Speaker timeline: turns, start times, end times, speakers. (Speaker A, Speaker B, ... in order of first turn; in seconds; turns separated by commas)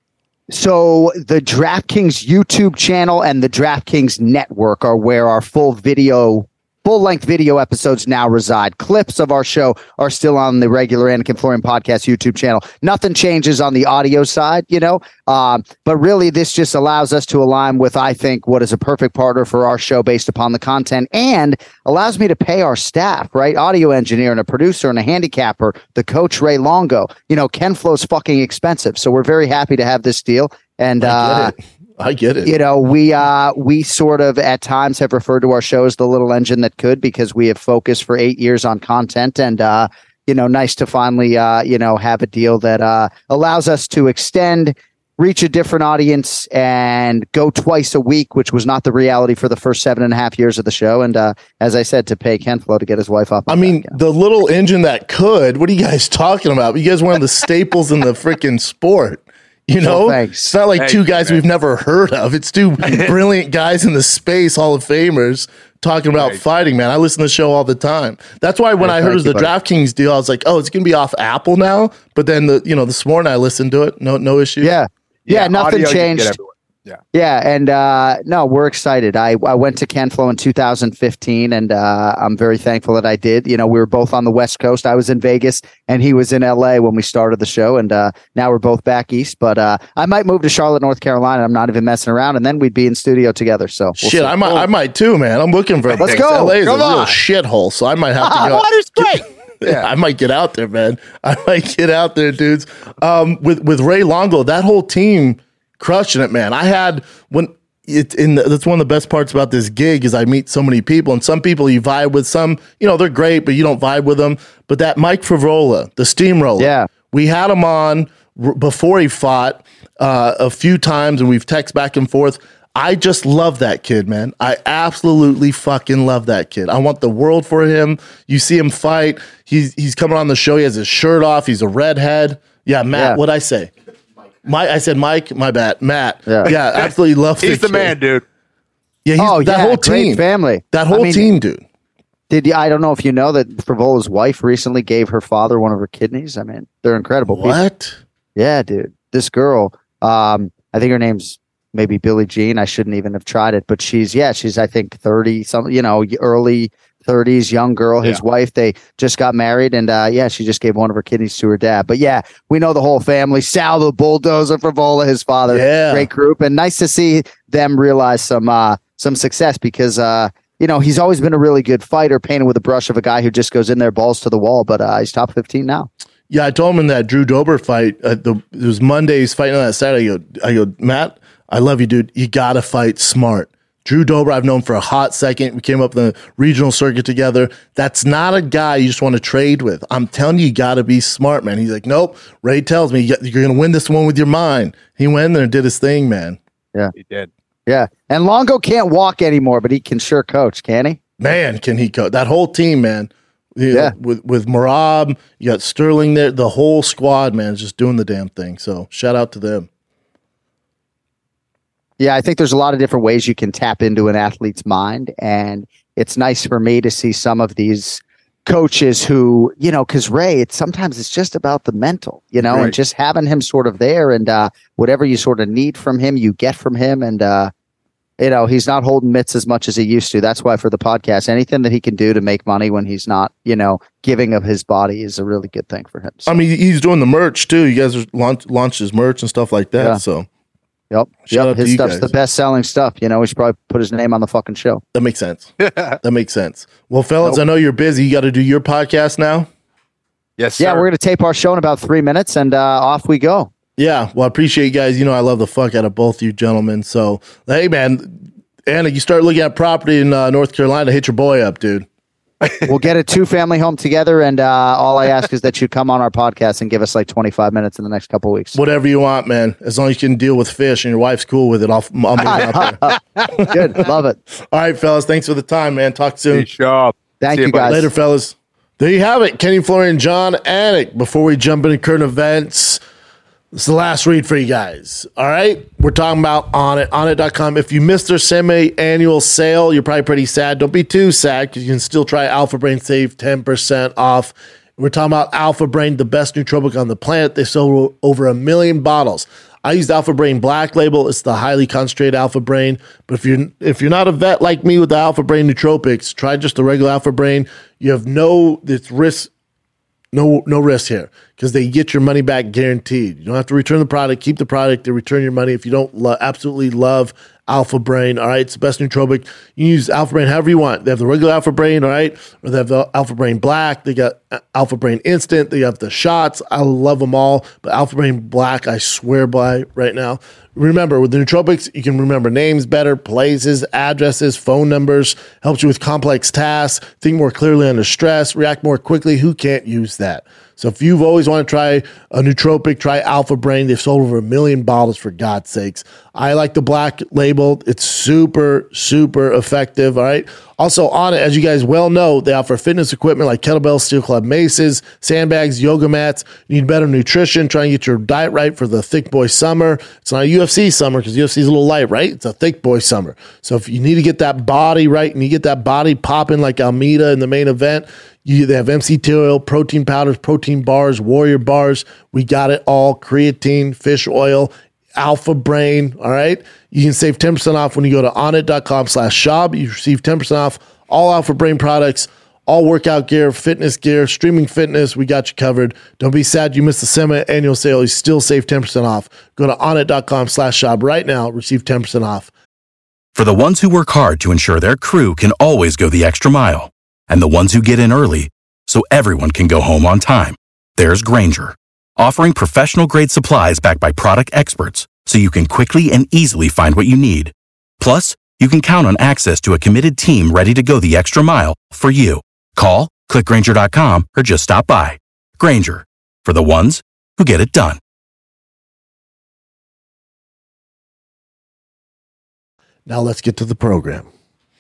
Speaker A: 0.5-31.5, Speaker B: 31.0-32.5, Speaker A: 32.5-54.0, Speaker B: 53.5-74.8, Speaker A: 59.8-60.5, Speaker C: 60.8-61.4, Speaker C: 62.8-63.1, Speaker C: 66.1-66.4, Speaker A: 68.8-69.5, Speaker A: 74.6-76.4, Speaker C: 75.3-77.0, Speaker A: 77.1-94.7, Speaker B: 94.0-133.7, Speaker C: 95.9-97.2, Speaker A: 96.0-96.6, Speaker A: 98.2-98.5, Speaker C: 98.3-99.9, Speaker A: 116.6-116.9, Speaker A: 132.9-133.2, Speaker B: 134.4-137.9, Speaker C: 137.4-138.2, Speaker B: 139.1-141.6, Speaker A: 139.2-141.3, Speaker A: 142.3-147.6, Speaker B: 147.3-148.0, Speaker A: 148.4-175.9, Speaker B: 165.5-166.1, Speaker B: 176.3-196.4, Speaker C: 197.0-197.3, Speaker A: 197.7-201.0, Speaker B: 201.2-209.7, Speaker A: 212.0-227.5, Speaker C: 222.4-222.7, Speaker A: 228.2-236.4, Speaker B: 236.3-240.3, Speaker A: 240.9-244.8, Speaker B: 241.3-242.1, Speaker B: 244.9-245.5, Speaker C: 245.6-246.0, Speaker B: 246.0-249.5, Speaker C: 250.4-250.9, Speaker A: 250.6-253.5, Speaker B: 253.8-261.9, Speaker A: 262.6-268.6, Speaker B: 268.5-272.8, Speaker A: 272.2-274.2, Speaker B: 273.3-273.8, Speaker B: 274.5-276.5, Speaker C: 276.3-277.8, Speaker A: 277.2-277.9, Speaker B: 277.6-282.8, Speaker B: 283.5-309.3, Speaker B: 310.1-392.3, Speaker D: 393.1-417.8, Speaker B: 422.9-424.1